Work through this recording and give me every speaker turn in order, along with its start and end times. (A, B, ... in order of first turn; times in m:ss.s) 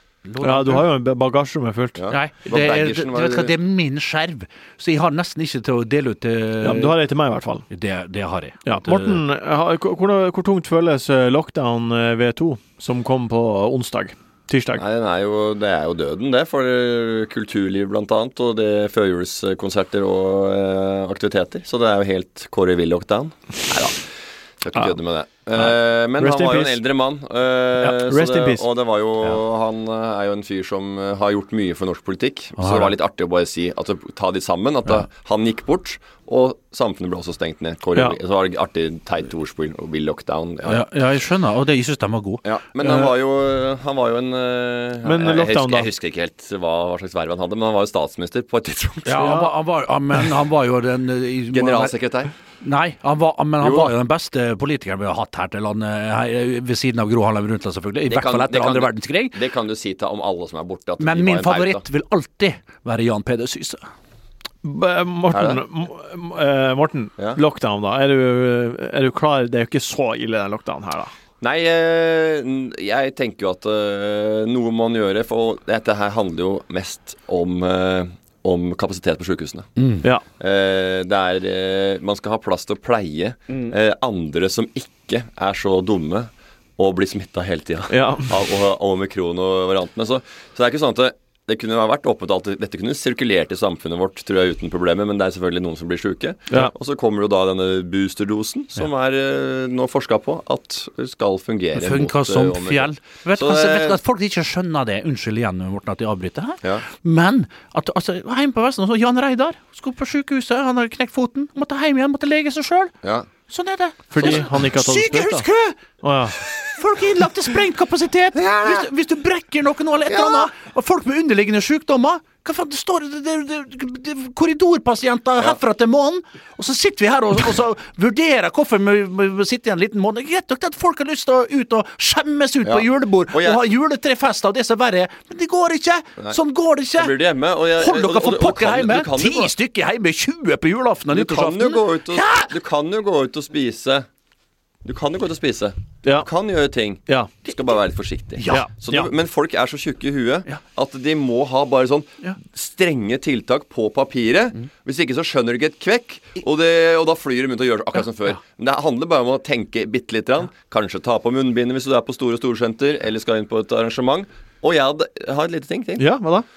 0:00.2-0:00.9 A
0:00.4-0:02.0 B
0:02.0-0:03.5 C
0:02.1-0:07.0 A
0:06.6-0:07.6 B
0:07.7-0:09.2 A
0:08.6-0:14.8 B
0:14.8-0:24.0 C
0:24.6-0:40.8 C
0:25.6-0:26.8 B
0:27.8-0:28.6 B
0:32.6-0:32.9 A
0:40.6-0:42.4 A
0:42.4-0:49.4 C
0:45.0-0:45.9 B
0:49.0-0:51.9 A
0:49.2-0:49.5 B
0:51.5-0:52.3 C
0:52.6-0:59.4 A
0:53.6-0:53.9 C
0:58.1-1:01.8 C
1:01.0-1:03.8 A
1:04.6-1:11.1 B
1:05.3-1:05.6 C
1:11.4-1:19.7 C
1:19.8-1:20.0 A
1:20.4-1:44.0 C
1:27.9-1:28.3 B
1:41.7-1:52.9 A
1:53.5-1:55.8 A
1:54.1-1:55.4 B
1:56.0-1:56.4 B
1:56.6-2:17.2 A
1:58.4-1:58.8 C
2:00.1-2:00.5 C
2:12.6-2:13.6 C
2:17.0-2:19.5 C
2:17.8-2:22.5 A
2:21.1-2:24.1 C
2:24.8-2:46.1 C
2:26.0-2:26.3 B
2:28.4-2:28.7 A
2:28.5-2:29.1 B
2:37.9-2:38.4 A
2:46.0-2:46.4 B